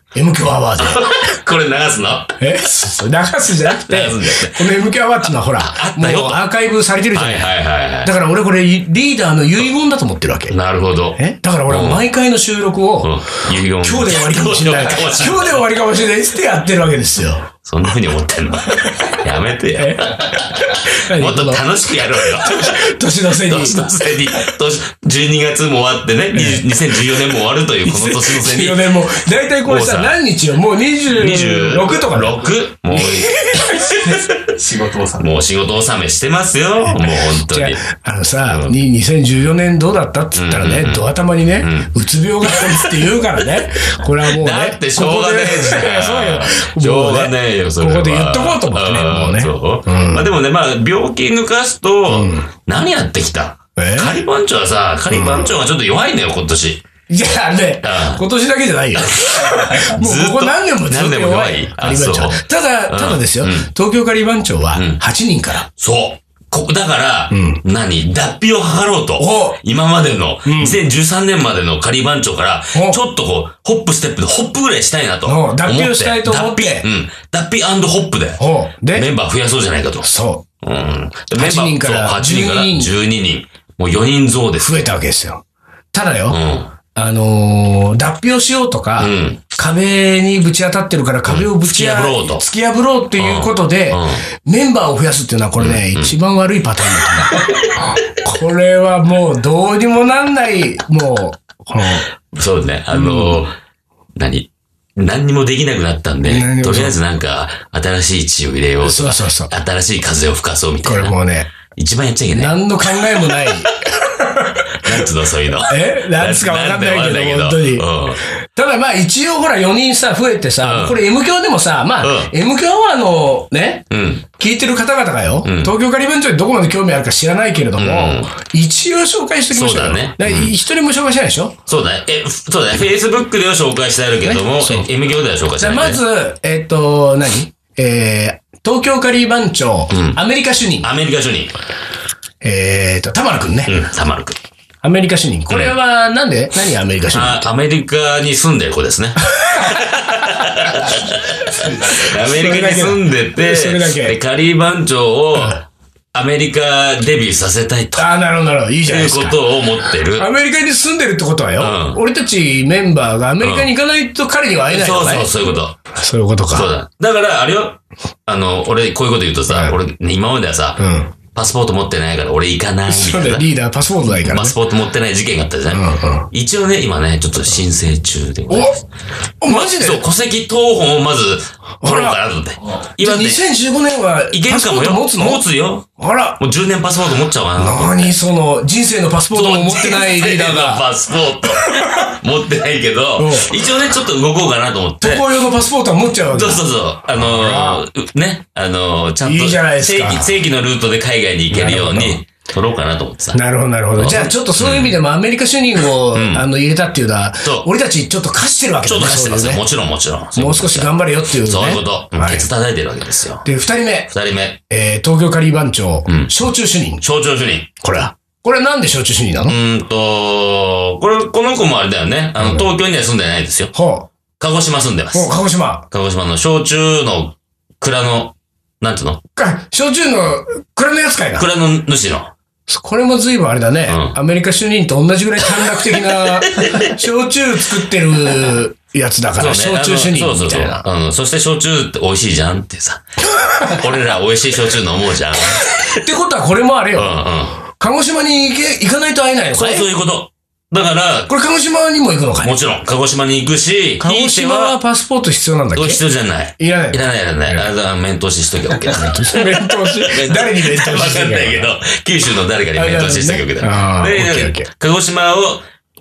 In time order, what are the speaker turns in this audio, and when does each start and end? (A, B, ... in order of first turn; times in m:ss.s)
0:00.1-0:01.1 A
0:00.8-0:02.4 B
0:02.4-0:07.5 A
0:03.8-0:04.7 B
0:05.6-0:06.4 B
0:07.1-0:08.1 B
0:08.0-0:10.6 A
0:10.5-0:12.0 B
0:11.2-0:17.5 A
0:13.0-0:15.6 B
0:17.6-0:28.9 B
0:19.7-0:24.0 A
0:26.3-0:26.7 A
0:27.8-0:34.3 A
0:29.6-0:30.2 B
0:31.0-0:37.8 B
0:36.9-0:50.3 A
0:38.5-0:38.7 B
0:40.3-0:41.9 B
0:42.4-0:43.2 B
0:44.2-0:56.8 B
0:52.1-0:52.5 A
0:53.8-0:54.2 A
0:55.1-0:55.5 A
0:57.1-1:05.7 A
0:57.8-0:58.2 B
0:58.9-1:03.7 B
1:04.7-1:05.0 B
1:05.7-1:18.4 B
1:07.3-1:07.6 A
1:09.2-1:09.6 A
1:10.4-1:10.8 A
1:12.7-1:13.0 A
1:15.2-1:16.9 A
1:18.4-1:19.1 A
1:18.9-1:20.1 B
1:20.0-1:20.4 A
1:20.6-1:24.8 B
1:21.4-1:22.9 A
1:24.6-1:26.4 A
1:26.3-1:26.7 B
1:26.9-1:42.1 A
1:29.0-1:29.4 B
1:31.2-1:32.4 B
1:33.2-1:34.2 B
1:35.6-1:36.1 B
1:42.3-1:43.5 B
1:42.9-1:43.5 A
1:44.2-1:51.1 B
1:46.2-1:47.0 A
1:48.8-1:49.5 A
1:50.8-1:51.5 A
1:51.6-1:53.7 B
1:52.3-1:55.1 A
1:54.8-1:58.2 B
1:55.7-1:57.9 A
1:58.4-2:11.6 A
2:00.6-2:01.0 B
2:02.0-2:02.3 B
2:03.9-2:04.2 B
2:05.4-2:05.7 B
2:07.8-2:08.3 B
2:09.5-2:10.5 B
2:11.7-2:16.0 B
2:14.2-2:14.9 A
2:15.6-2:20.9 A
2:19.9-2:20.2 B
2:20.8-2:21.5 B
2:22.4-2:23.7 A
2:23.6-2:24.4 B
2:24.8-2:27.4 A
2:25.5-2:25.8 B
2:27.1-2:38.1 B
2:29.2-2:29.8 A
2:30.7-2:34.2 A
2:38.0-2:39.4 A
2:38.8-2:40.3 B
2:40.1-2:46.7 A
2:41.6-2:42.0 B
2:43.4-2:43.7 B
2:44.7-2:45.8 B
2:46.5-2:53.5 B
2:49.5-2:49.8 A
2:50.8-2:51.1 A
2:52.9-2:54.6 A
2:54.2-2:58.8 B
2:55.7-2:56.3 A
2:58.5-2:58.8 A
2:59.4-3:00.0 A
2:59.4-3:03.4 B
3:01.8-3:02.2 A
3:03.0-3:05.4 A
3:04.3-3:05.9 B
3:06.0-3:06.4 A
3:06.4-3:08.1 B
3:07.6-3:10.9 A
3:09.3-3:15.4 B
3:11.5-3:12.2 A
3:13.2-3:13.5 A
3:15.0-3:16.6 A
3:16.3-3:23.4 B
3:17.2-3:17.8 A
3:19.2-3:20.3 A
3:21.5-3:22.2 A
3:23.3-3:29.6 A
3:23.9-3:25.0 B
3:26.1-3:26.4 B
3:28.8-3:33.4 B
3:30.4-3:32.5 A
3:33.4-3:34.1 A
3:34.1-3:34.6 B
3:34.7-3:37.0 A
3:36.1-3:36.3 B
3:37.0-3:37.7 B
3:37.8-3:39.6 A
3:39.5-3:43.7 B
3:42.4-3:42.7 A
3:43.7-3:44.1 A
3:44.4-3:45.3 B
3:45.1-3:45.8 A
3:45.9-3:49.2 B
3:49.4-3:51.5 A
3:51.4-3:52.3 B
3:52.7-4:00.8 A
3:53.9-3:54.2 B
3:56.2-3:56.9 B
3:59.4-4:03.0 B
4:03.6-4:05.8 B
4:05.7-4:09.9 A
4:06.9-4:07.6 B
4:09.5-4:11.3 B
4:11.3-4:12.6 A
4:12.4-4:14.8 B
4:14.0-4:16.0 A
4:15.7-4:25.6 B
4:16.6-4:17.7 A
4:18.9-4:21.7 A
4:22.7-4:24.7 A